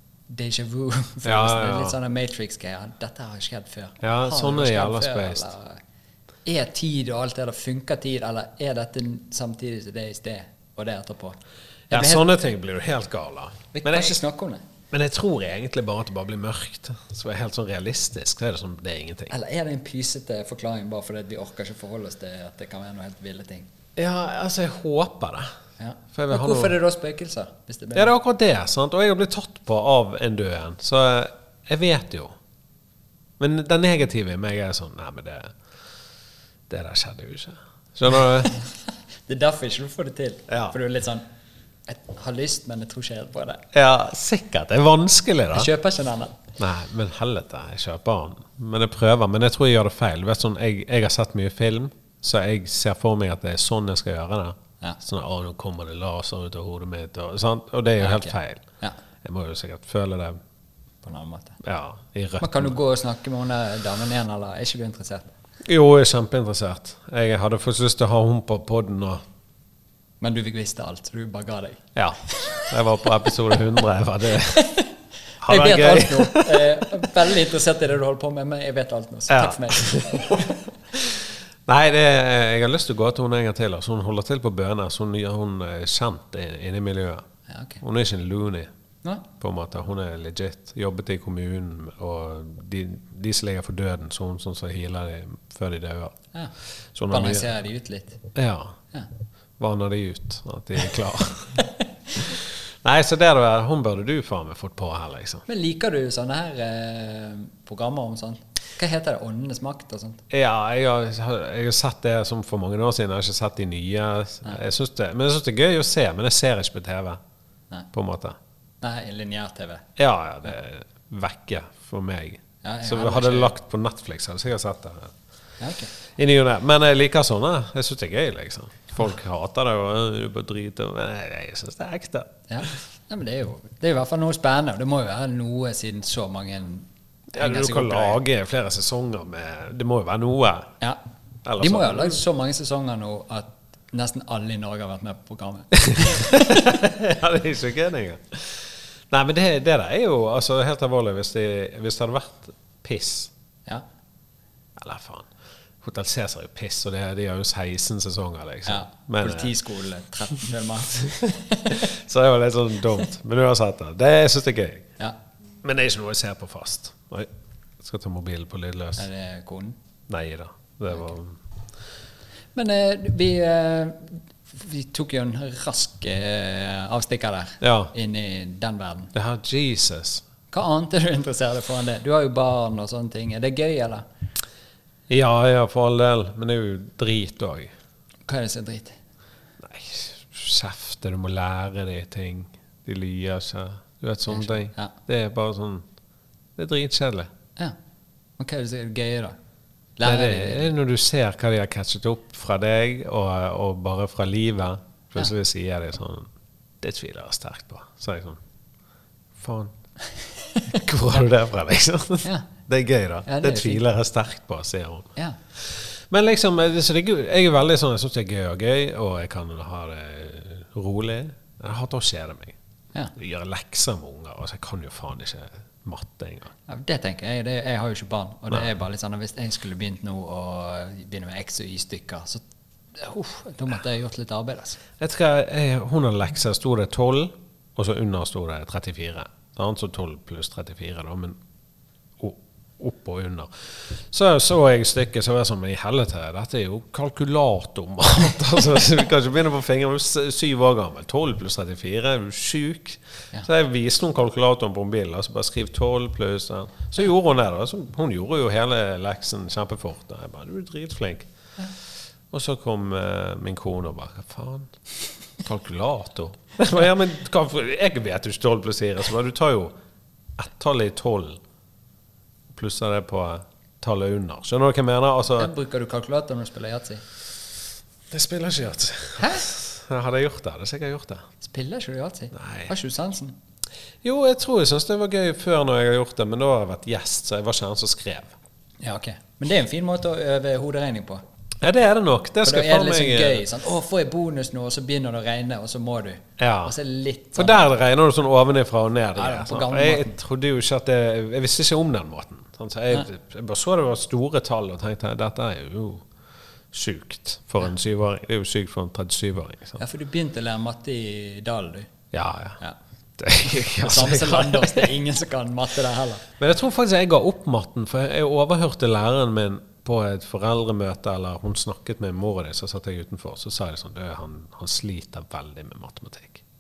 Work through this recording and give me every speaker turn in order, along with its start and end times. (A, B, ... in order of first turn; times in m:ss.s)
0:00.3-0:05.8 A
0:01.2-0:02.0 B
0:04.0-0:05.5 B
0:06.4-0:11.4 A
0:11.9-0:14.2 B
0:11.9-0:12.3 A
0:13.7-0:14.6 A
0:14.9-0:19.3 B
0:19.3-0:23.7 A
0:24.0-0:25.5 B
0:25.8-0:28.1 A
0:26.1-0:26.8 B
0:28.0-0:32.4 B
0:33.4-0:35.6 B
0:36.7-0:38.6 B
0:39.3-0:41.2 A
0:40.5-0:40.8 B
0:41.9-0:43.7 A
0:43.7-0:45.7 B
0:45.5-0:46.4 A
0:46.6-0:58.6 B
0:58.0-0:59.0 A
0:59.2-1:00.4 B
1:01.0-1:01.6 A
1:01.6-1:02.7 B
1:02.4-1:05.3 A
1:05.6-1:09.2 B
1:10.2-1:11.8 A
1:12.0-1:14.7 B
1:14.5-1:14.9 A
1:15.4-1:17.1 B
1:15.5-1:20.6 A
1:19.3-1:27.2 B
1:27.5-1:27.8 A
1:27.8-1:28.7 B
1:29.4-1:36.2 B
1:37.0-1:37.5 B
1:37.1-1:38.2 A
1:38.4-1:38.8 B
1:39.6-1:45.4 B
1:45.5-1:50.2 A
1:50.3-1:57.2 B
1:57.9-1:58.4 B
1:58.8-1:59.9 A
2:00.0-2:05.1 B
2:02.6-2:03.5 A
2:05.6-2:05.9 A
2:06.1-2:12.8 B
2:12.5-2:18.2 A
2:17.3-2:20.7 B
2:21.4-2:22.2 B
2:21.6-2:26.9 A
2:25.9-2:33.3 B
2:34.8-2:35.3 B
2:35.8-2:39.5 B
2:38.7-2:41.9 A
2:41.0-2:44.9 B
2:45.6-2:47.3 B
2:47.8-2:49.1 B
2:49.0-2:49.8 A
2:50.1-2:51.4 B
2:52.6-2:59.1 A
2:57.6-2:57.9 B
2:59.1-3:00.2 B
3:00.5-3:04.0 A
3:05.1-3:07.7 B
3:08.3-3:09.0 A
3:09.6-3:15.8 B
3:14.3-3:15.0 A
3:16.6-3:17.3 B
3:18.4-3:19.4 A
3:20.0-3:20.7 A
3:20.0-3:26.3 B
3:26.8-3:28.4 B
3:29.4-3:29.7 B
3:30.5-3:30.8 A
3:30.7-3:42.6 B
3:33.3-3:33.8 A
3:43.2-3:46.5 B
3:46.7-3:52.4 A
3:53.0-3:54.8 A
3:55.0-4:01.4 B
4:02.2-4:21.3 B
4:22.3-4:24.7 B
4:25.4-4:29.7 B
4:30.4-4:31.4 B
4:32.5-4:35.5 B
4:35.4-4:37.0 A
4:38.1-4:41.2 B
4:39.2-4:39.4 A
4:41.4-4:43.4 A
4:42.3-4:42.7 B
4:44.0-4:48.3 B
4:48.8-4:51.2 A
4:51.6-4:53.4 B
4:52.4-4:57.7 A
4:56.4-4:56.8 B
4:57.4-5:06.1 B
4:59.2-5:00.2 A
5:06.7-5:09.8 B
5:09.8-5:11.9 A
5:12.1-5:12.6 B
5:13.2-5:15.0 B
5:13.6-5:16.3 A
5:16.4-5:26.4 B